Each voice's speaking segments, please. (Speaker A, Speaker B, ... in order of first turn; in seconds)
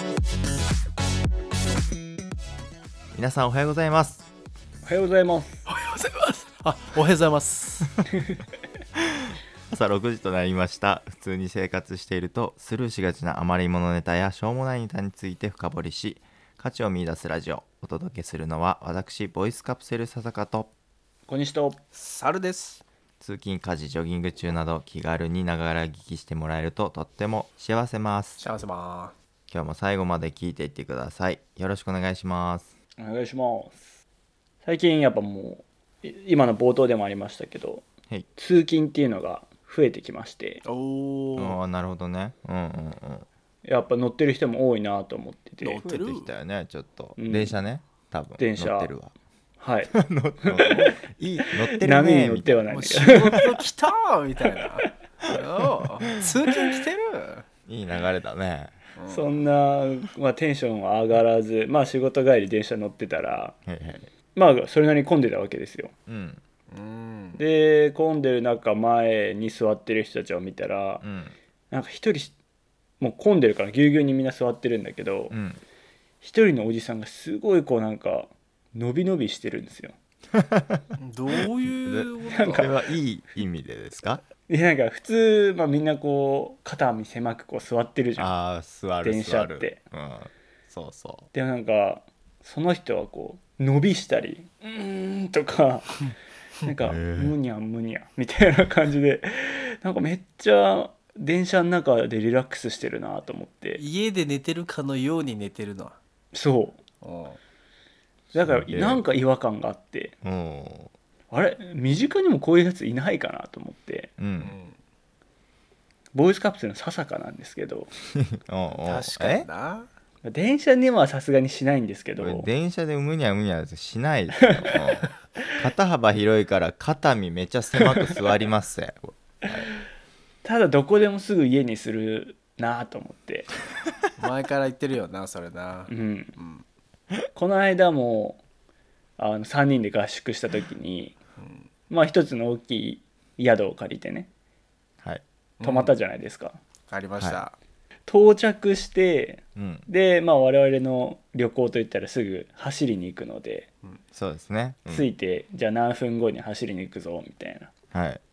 Speaker A: 3.1-4.2, 9.0-20.7, 23.2-28.4, 29.5-32.7, 41.4-43.2, 45.8-49.1, 49.9-52.7, 57.7-58.8, 63.6-64.1, 66.1-66.4, 71.0-71.3, 75.3-75.6, 80.3-80.9, 81.8-84.2, 88.2-91.2, 96.8-97.3, 108.4-109.0, 110.2-110.9, 114.2-114.5, 118.1-119.5, 122.2-129.2, 149.6-149.8, 154.1-155.1, 157.9-158.2
Speaker B: 4.8-5.6, 21.3-21.8, 33.0-33.9, 34.6-40.6, 43.6-45.8, 47.2-47.5, 48.4-48.9, 49.6-50.9, 51.6-53.5, 59.1-63.5, 64.3-65.9, 67.4-71.0, 71.7-72.3, 73.0-75.3, 76.2-79.9, 82.3-82.7, 84.5-88.3, 89.0-89.8, 91.3-96.0, 96.6-103.8, 106.3-106.8, 108.3-110.1, 111.3-114.1, 116.1-117.9, 120.2-122.5, 130.4-133.5, 135.9-136.3, 137.3-138.4, 139.2-141.1, 141.9-144.3, 145.6-146.6, 148.1-153.7, 154.9-157.7
Speaker C: 5.7-7.9, 21.9-22.8, 28.4-29.1, 40.6-41.6, 45.6-46.3, 52.7-57.5, 59.0-59.3, 66.7-67.4, 81.0-82.7, 103.8-106.0, 107.0-107.4, 114.4-114.7, 118.8-119.9, 134.2-136.6, 141.4-141.7, 145.6-145.9, 146.9-147.5